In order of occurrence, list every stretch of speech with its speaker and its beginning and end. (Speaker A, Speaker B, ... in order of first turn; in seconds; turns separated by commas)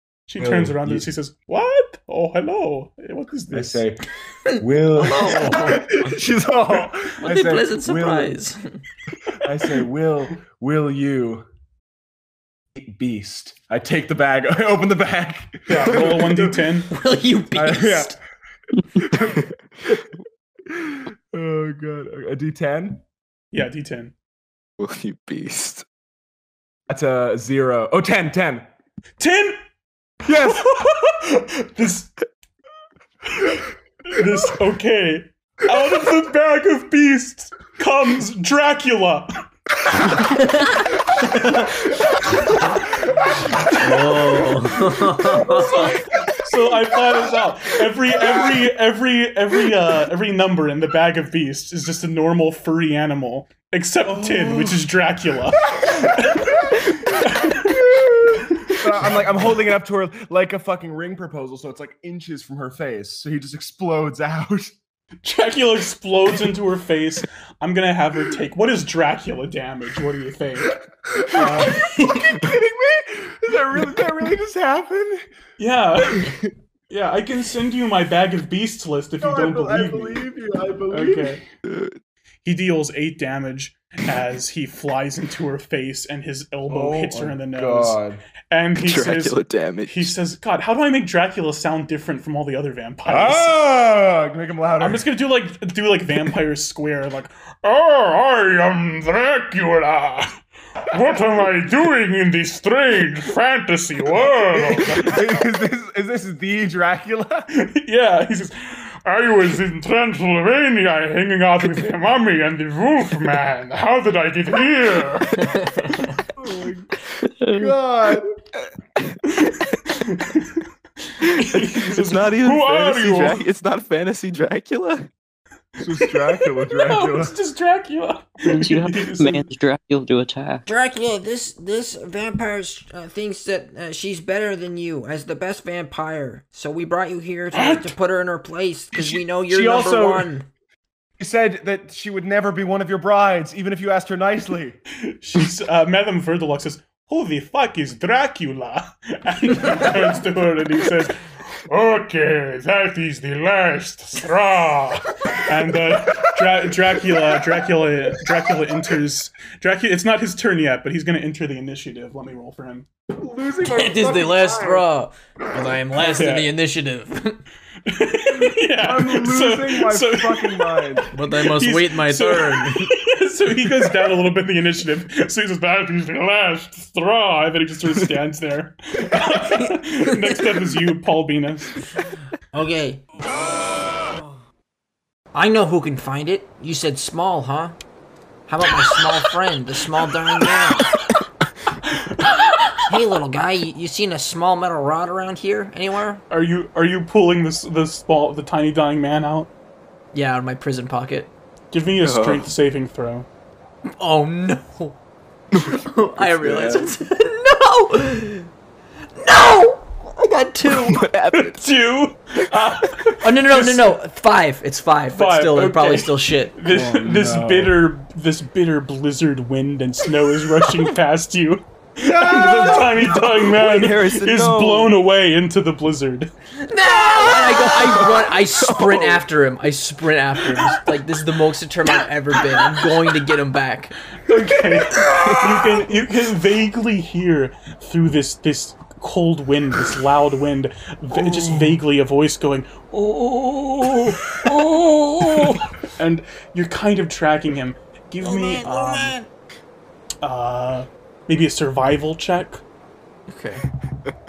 Speaker A: 0.3-3.9, Speaker B: 0.4-1.1, Speaker B: 3.5-4.0, Speaker C: 4.5-5.9, Speaker B: 4.6-8.4, Speaker C: 7.2-8.6, Speaker B: 9.3-11.4, Speaker B: 12.7-16.8, Speaker A: 15.7-16.9, Speaker C: 16.9-18.2, Speaker B: 17.5-18.2, Speaker B: 18.9-20.1, Speaker B: 20.7-23.0, Speaker A: 23.5-24.1, Speaker D: 24.8-25.9, Speaker B: 26.9-28.7, Speaker A: 29.2-29.6, Speaker B: 30.2-30.7, Speaker A: 30.4-32.1, Speaker A: 33.4-39.5, Speaker C: 40.3-41.0, Speaker A: 41.2-42.3, Speaker B: 42.8-43.4, Speaker A: 43.5-44.2, Speaker C: 43.6-45.9, Speaker B: 45.2-45.9, Speaker A: 45.3-58.8, Speaker B: 46.8-47.0, Speaker B: 48.2-48.5, Speaker B: 54.1-54.8, Speaker B: 55.7-64.8, Speaker A: 65.2-72.0, Speaker B: 71.1-75.2, Speaker A: 75.6-76.3, Speaker A: 76.9-80.3, Speaker B: 79.2-81.4, Speaker A: 80.9-81.4, Speaker D: 81.6-82.0, Speaker A: 82.5-93.5, Speaker B: 86.7-88.2, Speaker D: 88.8-90.1, Speaker B: 93.1-95.0, Speaker A: 94.8-105.2, Speaker B: 104.5-107.5, Speaker A: 107.5-116.2, Speaker C: 115.4-116.1, Speaker B: 116.4-116.9, Speaker E: 117.2-117.7, Speaker B: 117.5-118.3, Speaker A: 119.2-123.4, Speaker D: 121.2-125.1, Speaker B: 125.8-127.3, Speaker A: 126.0-129.5, Speaker E: 128.4-130.6, Speaker C: 130.7-140.5, Speaker A: 137.5-137.9, Speaker B: 139.0-140.3, Speaker B: 141.2-144.8, Speaker A: 145.0-162.9, Speaker B: 156.1-158.8, Speaker B: 163.1-164.9, Speaker C: 163.7-167.4, Speaker A: 166.0-166.6, Speaker A: 167.8-181.8, Speaker B: 168.8-171.1, Speaker C: 171.1-172.9, Speaker C: 179.2-180.6, Speaker C: 182.5-183.0, Speaker C: 185.3-187.8, Speaker C: 188.5-190.9, Speaker A: 191.8-192.9, Speaker C: 192.9-196.2, Speaker A: 196.3-199.5, Speaker C: 200.1-201.3, Speaker A: 201.7-203.3, Speaker D: 202.0-202.5, Speaker C: 204.0-205.0, Speaker D: 205.5-206.9, Speaker C: 205.6-208.5, Speaker C: 209.2-211.0, Speaker D: 210.7-211.6, Speaker A: 211.4-214.0, Speaker C: 213.2-216.6, Speaker A: 215.1-226.3, Speaker B: 216.7-217.8, Speaker B: 222.0-223.5, Speaker D: 223.5-225.0, Speaker C: 226.6-233.9, Speaker D: 227.5-229.2, Speaker A: 234.2-249.2, Speaker D: 235.1-235.5, Speaker D: 244.6-245.6, Speaker C: 248.2-249.3, Speaker A: 250.2-252.6, Speaker C: 253.3-253.7